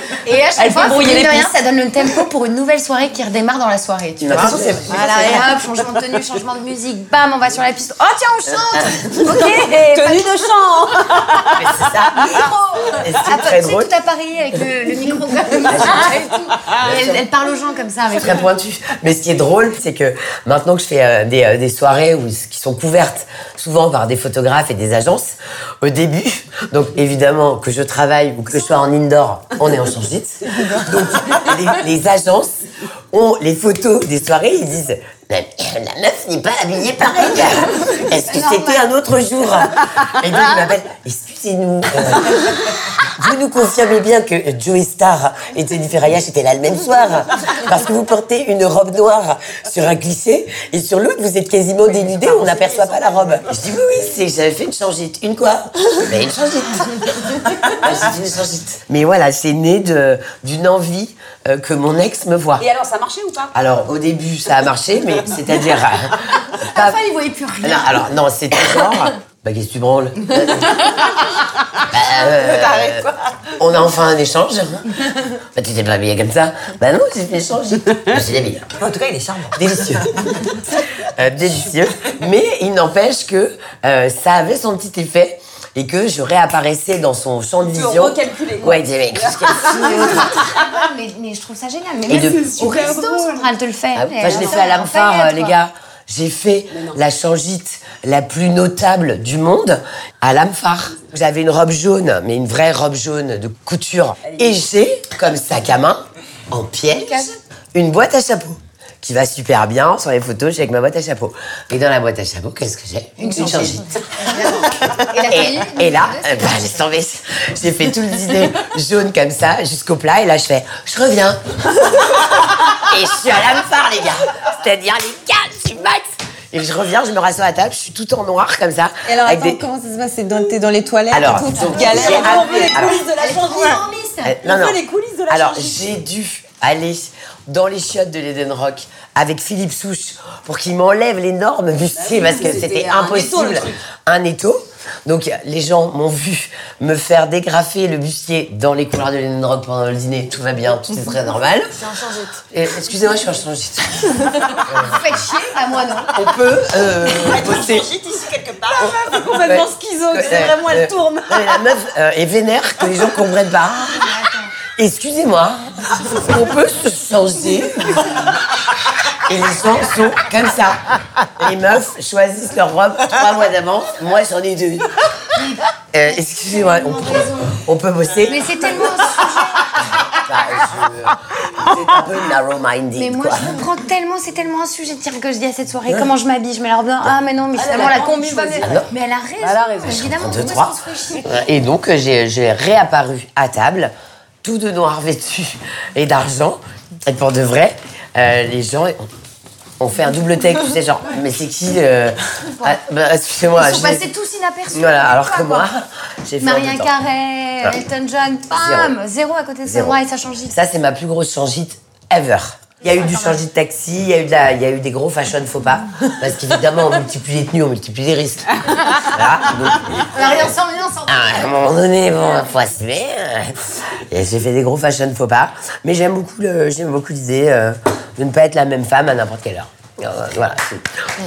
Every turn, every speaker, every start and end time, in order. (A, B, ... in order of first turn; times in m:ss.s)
0:00.2-0:10.4 A
0:00.6-0:01.5 B
0:04.2-0:05.4 C
0:04.3-0:05.5 D
0:09.2-0:11.9 B
0:11.6-0:13.9 C
0:12.2-0:18.4 A
0:15.7-0:17.2 C
0:18.2-0:32.6 C
0:33.1-1:02.6 C
0:38.2-0:38.8 A
0:51.8-0:53.4 B
1:02.6-1:03.5 B
1:03.5-1:07.0 C
1:06.6-1:08.0 A
1:07.6-1:13.1 C
1:12.1-1:13.5 D
1:13.6-1:18.7 C
1:18.8-1:20.2 D
1:19.5-1:20.5 C
1:21.1-1:30.4 C
1:27.6-1:30.4 B
1:29.7-1:35.6 A
1:32.1-1:32.5 C
1:32.2-1:33.4 B
1:33.9-1:53.8 C
1:34.3-1:34.6 B
1:36.7-1:37.0 B
1:44.2-1:44.6 B
1:46.9-1:47.3 A
1:53.2-1:56.6 A
1:55.3-2:09.6 C
2:09.1-2:12.9 E
2:11.1-2:13.0 C
2:11.7-2:14.4 A
2:11.8-2:13.8 B
2:14.2-2:31.7 C
2:14.4-2:15.9 B
2:21.9-2:23.8 B
2:32.5-2:35.0 C
2:34.7-2:36.1 A
2:36.1-2:37.8 C
2:36.8-2:39.2 D
2:38.8-2:41.6 B
2:39.4-2:44.1 C
2:43.9-2:44.5 A
2:44.8-2:48.3 C
2:49.2-2:50.8 C
2:51.4-2:54.9 C
2:55.3-2:57.6 A
2:55.9-2:58.7 C
2:58.2-2:59.8 A
2:59.8-3:03.6 C
3:03.0-3:11.3 A
3:07.5-3:08.8 B
3:08.6-3:08.9 C
3:09.4-3:10.1 B
3:10.0-3:19.0 C
3:19.8-3:24.1 C
3:23.6-3:25.7 A
3:24.7-3:26.9 C
3:26.4-3:30.6 A
3:28.5-3:28.9 C
3:29.6-3:30.0 C
3:30.5-3:40.5 C
3:33.0-3:33.3 A
3:40.1-3:41.7 A
3:41.1-3:51.1 C